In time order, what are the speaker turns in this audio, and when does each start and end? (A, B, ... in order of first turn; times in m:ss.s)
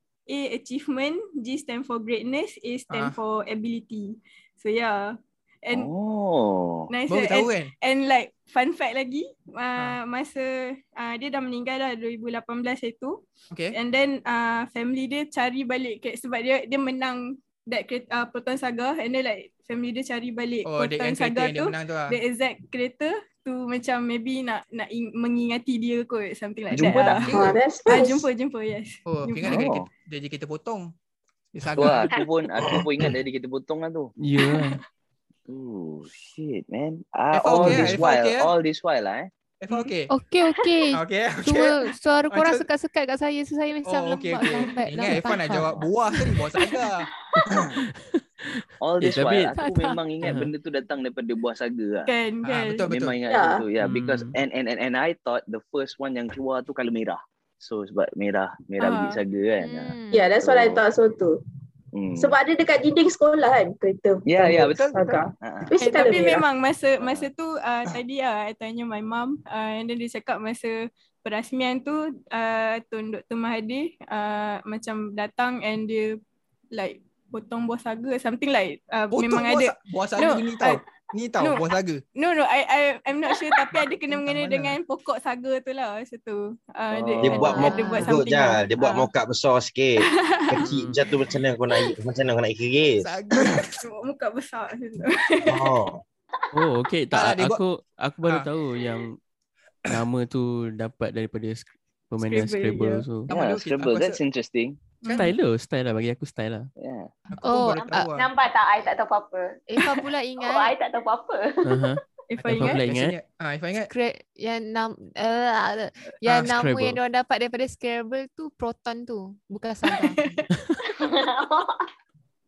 0:00.3-0:05.9 A
0:02.9-0:03.2 B
0:05.7-0:06.9 C
0:06.9-0:29.7 A
0:07.1-0:07.7 B
0:20.6-0:22.2 B
0:26.7-0:27.3 C
0:26.9-0:27.6 B
0:27.3-0:28.3 D
0:29.0-0:30.9 B
0:29.4-0:29.9 C
0:31.5-0:32.1 B
0:31.7-0:34.1 C
0:32.6-0:33.1 E
0:34.2-0:34.8 F
0:35.5-0:39.3 C
0:37.3-0:38.5 B
0:37.6-0:38.0 F
0:39.6-0:40.1 B
0:40.1-0:45.7 G
0:40.9-0:42.6 B
0:43.8-0:47.0 B
0:47.4-0:49.6 F
0:47.5-0:47.8 C
0:48.8-0:52.1 C
0:49.6-0:50.0 G
0:50.2-0:50.5 F
0:52.0-0:52.9 A
0:52.4-0:53.2 B
0:52.8-1:00.8 C
0:53.3-0:53.6 D
0:53.8-0:54.3 F
0:58.8-0:59.2 A
0:59.6-1:00.3 G
1:00.1-1:01.4 D
1:01.9-1:02.3 C
1:02.2-1:06.4 D
1:04.2-1:05.9 C
1:05.7-1:16.2 A
1:07.0-1:07.3 C
1:16.7-1:20.8 A
1:19.1-1:22.0 B
1:22.1-1:29.1 A
1:24.1-1:24.8 B
1:26.9-1:27.6 C
1:27.2-1:33.1 E
1:27.4-1:28.2 G
1:30.0-1:30.7 A
1:30.6-1:31.0 F
1:33.0-1:33.8 B
1:33.8-1:35.7 A
1:35.4-1:36.0 E
1:36.5-1:39.2 F
1:37.1-1:37.6 B
1:39.9-1:43.3 F
1:42.2-1:43.0 A
1:43.3-1:44.2 B
1:43.3-1:44.8 C
1:45.0-1:45.3 A
1:45.0-1:45.3 B
1:45.1-1:46.7 F
1:46.8-1:47.1 C
1:47.3-1:48.3 B
1:47.4-1:48.0 G
1:47.8-1:49.6 H
1:49.7-1:50.7 G
1:50.4-1:51.9 H
1:51.6-1:53.1 F
1:52.3-1:52.8 A
1:52.4-1:53.9 B
1:53.9-2:00.2 G
1:56.3-1:57.0 F
1:59.9-2:00.4 A
2:00.8-2:01.9 H